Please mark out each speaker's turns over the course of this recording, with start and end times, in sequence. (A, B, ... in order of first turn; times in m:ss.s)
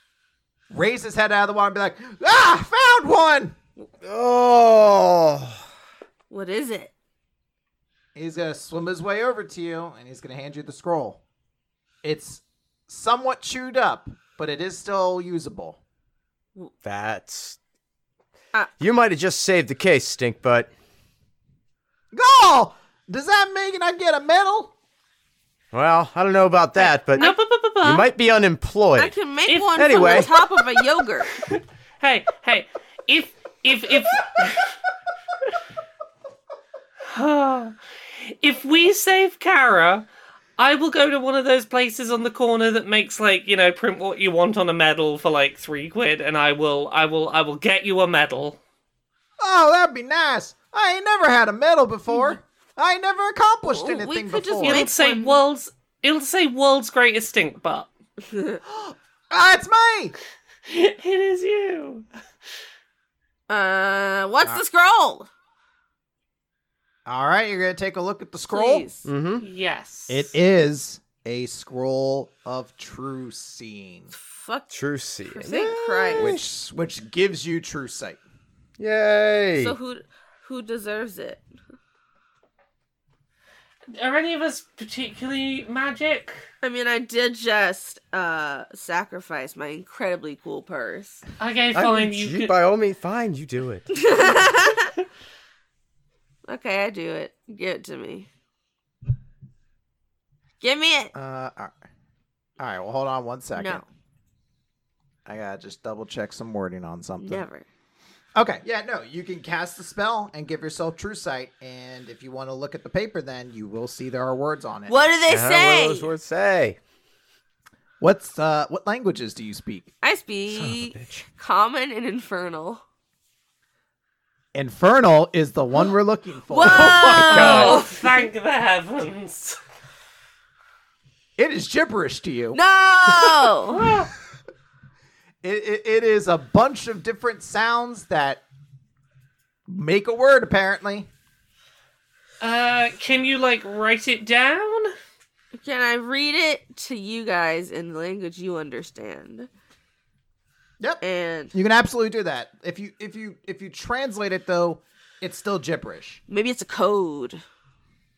0:00.7-0:03.6 A
0:04.0-0:05.6 B
0:06.3-0:06.9 C
0:08.2-0:11.2 A
0:12.0-0:15.8 A
0:16.8-0:17.6 B
0:18.8-0:20.7 B
0:22.1-0:24.7 A
0:25.7-0:27.3 B
0:26.8-0:27.4 C
0:27.2-0:28.1 D
0:27.8-0:29.2 B
0:29.0-0:31.3 C
0:29.5-0:30.3 D
0:29.8-0:30.3 B
0:31.4-0:34.8 D
0:37.0-0:40.1 D
0:40.6-0:48.6 D
0:49.4-0:54.9 A
0:53.6-0:55.4 C
0:54.6-0:57.9 D
0:58.3-0:58.6 C
0:58.7-1:00.2 A
1:00.7-1:02.1 D
1:03.5-1:05.3 C
1:07.1-1:08.9 A
1:08.5-1:09.1 C
1:09.0-1:09.4 B
1:09.4-1:10.3 D
1:10.1-1:14.1 A
1:14.1-1:14.7 C
1:14.7-1:16.4 B
1:15.3-1:16.3 C
1:16.2-1:18.2 A
1:18.8-1:19.8 B
1:19.6-1:21.4 C
1:23.9-1:26.4 D
1:26.6-1:31.2 C
1:31.4-1:32.5 D
1:31.8-1:34.0 B
1:33.9-1:34.9 C
1:36.5-1:38.3 C
1:40.6-1:41.1 C
1:41.2-1:41.7 A
1:42.6-1:43.8 A
1:43.5-1:43.8 C
1:45.3-1:47.4 A
1:47.2-1:47.7 C
1:48.4-1:54.9 A
1:54.9-1:56.1 C
1:55.3-1:56.8 B
1:58.0-1:59.9 A
2:00.0-2:02.8 C
2:00.5-2:01.3 B
2:04.5-2:07.7 A
2:06.5-2:08.2 C
2:06.9-2:07.8 B
2:07.0-2:09.6 D
2:11.4-2:12.6 A
2:12.5-2:13.8 C
2:13.7-2:14.1 D
2:15.4-2:18.4 A
2:19.7-2:21.1 A
2:22.4-2:24.9 D
2:25.6-2:29.5 C
2:31.0-2:31.5 C
2:31.5-2:36.2 A
2:36.3-2:37.4 C